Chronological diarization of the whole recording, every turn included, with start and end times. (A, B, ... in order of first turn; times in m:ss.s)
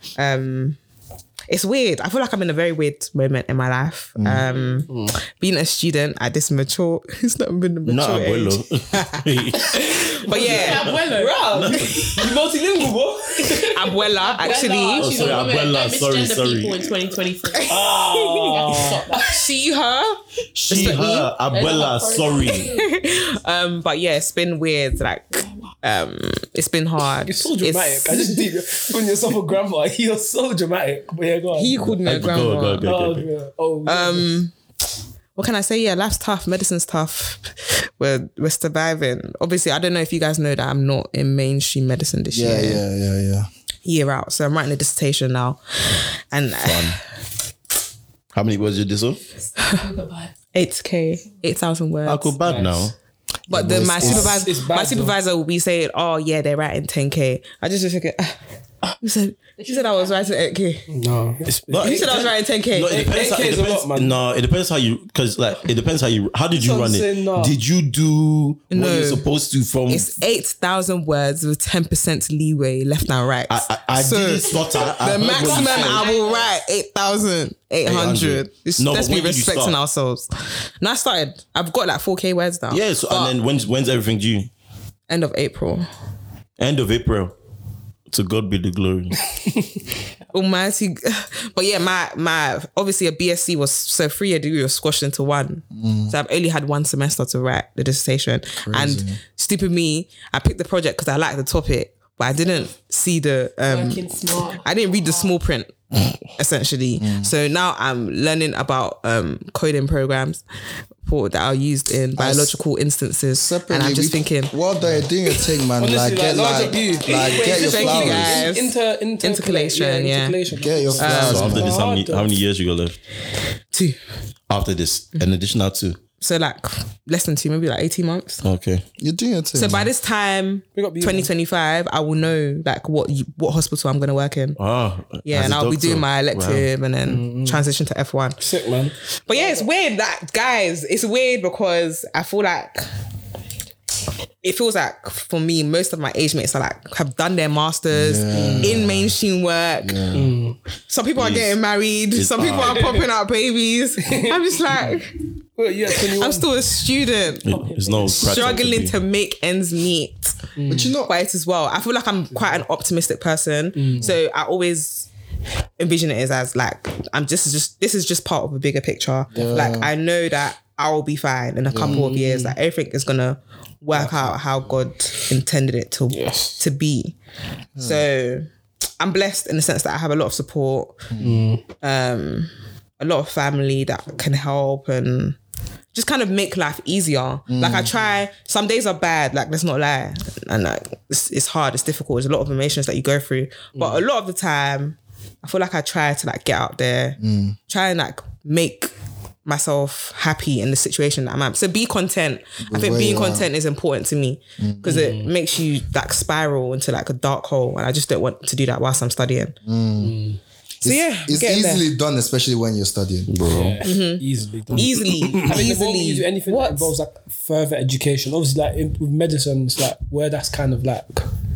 0:00.2-0:00.8 A
0:01.5-0:09.2 A
0:04.2-0:04.4 B
0:04.5-0:04.8 C
0:04.9-0:05.2 D
0:07.8-0:12.3 E
0:09.7-0:10.9 A
0:10.3-0:11.5 C
0:10.3-0:15.4 D
0:13.6-0:15.4 A
0:14.2-0:17.8 C
0:15.0-0:16.9 E
0:17.7-0:19.5 D
0:17.7-0:21.3 A
0:18.4-0:19.3 C
0:20.6-0:21.0 D
0:20.7-0:22.7 E
0:21.5-0:23.0 C
0:22.6-0:28.5 A
0:27.2-0:32.2 D
0:31.5-0:32.9 A
0:32.0-0:33.3 E
0:32.8-0:34.3 D
0:33.9-0:34.5 A
0:35.4-0:42.8 A
0:42.3-0:43.5 B
0:43.8-0:47.0 A
0:46.6-0:47.0 E
0:48.3-0:49.2 E
0:49.6-0:50.3 C
0:50.5-0:52.4 A
0:52.1-0:53.0 E
0:52.4-0:52.9 D
0:53.5-0:58.4 A
0:53.5-0:54.3 B
0:53.8-0:55.2 D
0:53.9-0:54.4 E
0:59.0-1:00.9 A
0:59.6-1:00.4 C
1:00.9-1:02.3 D
1:01.5-1:10.1 E
1:01.8-1:03.0 A
1:02.9-1:04.2 D
1:06.5-1:07.6 D
1:08.7-1:09.3 A
1:09.9-1:20.3 A
1:13.5-1:16.1 E
1:14.8-1:16.5 C
1:17.8-1:19.8 E
1:20.8-1:23.3 A
1:22.7-1:24.5 E
1:25.1-1:25.9 A
1:26.6-1:27.3 E
1:28.1-1:29.2 E
1:30.3-1:44.0 A
1:35.7-1:36.1 B
1:38.6-1:39.2 B
1:43.6-1:45.3 C
1:44.6-1:50.4 A
1:47.0-1:47.3 B
1:51.0-1:54.5 A
1:52.2-1:52.6 B
1:53.4-1:58.5 B
1:55.8-2:02.4 D
1:57.1-2:00.4 A
2:00.5-2:01.7 B
2:01.0-2:01.7 A
2:01.3-2:03.0 E
2:03.7-2:04.0 A
2:04.5-2:06.0 E
2:06.2-2:08.4 A
2:08.4-2:08.8 E
2:09.0-2:09.9 B
2:09.6-2:14.6 A
2:10.7-2:11.3 D
2:14.6-2:16.7 E
2:15.3-2:18.4 A
2:17.0-2:17.7 D
2:18.4-2:19.7 D
2:19.3-2:22.8 A
2:24.4-2:30.0 A
2:27.9-2:29.2 B
2:28.3-2:28.8 D
2:29.8-2:30.3 B
2:30.1-2:30.6 D
2:30.9-2:35.2 A
2:31.2-2:31.5 E
2:32.1-2:33.0 E
2:32.6-2:33.1 D
2:34.0-2:35.0 D
2:35.6-2:36.5 D
2:35.9-2:40.4 A
2:37.4-2:39.0 E
2:37.8-2:38.2 D
2:40.6-2:41.0 D
2:40.7-2:41.1 B
2:41.0-2:45.1 A
2:42.3-2:42.6 D
2:43.8-2:44.2 D
2:45.8-2:57.2 A
2:49.3-2:49.9 B
2:51.7-2:52.1 B
2:51.8-2:52.6 D
2:53.9-2:54.3 D
2:56.1-2:56.6 D
2:57.8-2:58.0 B
2:57.8-2:58.5 A
2:59.0-3:01.1 A
3:01.1-3:01.4 B
3:01.2-3:01.6 D
3:01.8-3:05.4 A
3:05.9-3:18.9 A
3:07.5-3:07.9 B
3:13.8-3:14.0 D
3:17.2-3:17.6 B
3:19.4-3:29.6 A
3:22.6-3:23.5 B
3:24.6-3:25.0 B
3:24.9-3:25.3 D
3:29.6-3:30.1 B
3:30.0-3:30.4 D
3:30.8-3:33.3 B
3:30.8-3:31.8 A
3:33.3-3:33.8 E
3:33.4-3:41.3 D
3:33.8-3:36.9 A
3:34.7-3:35.6 E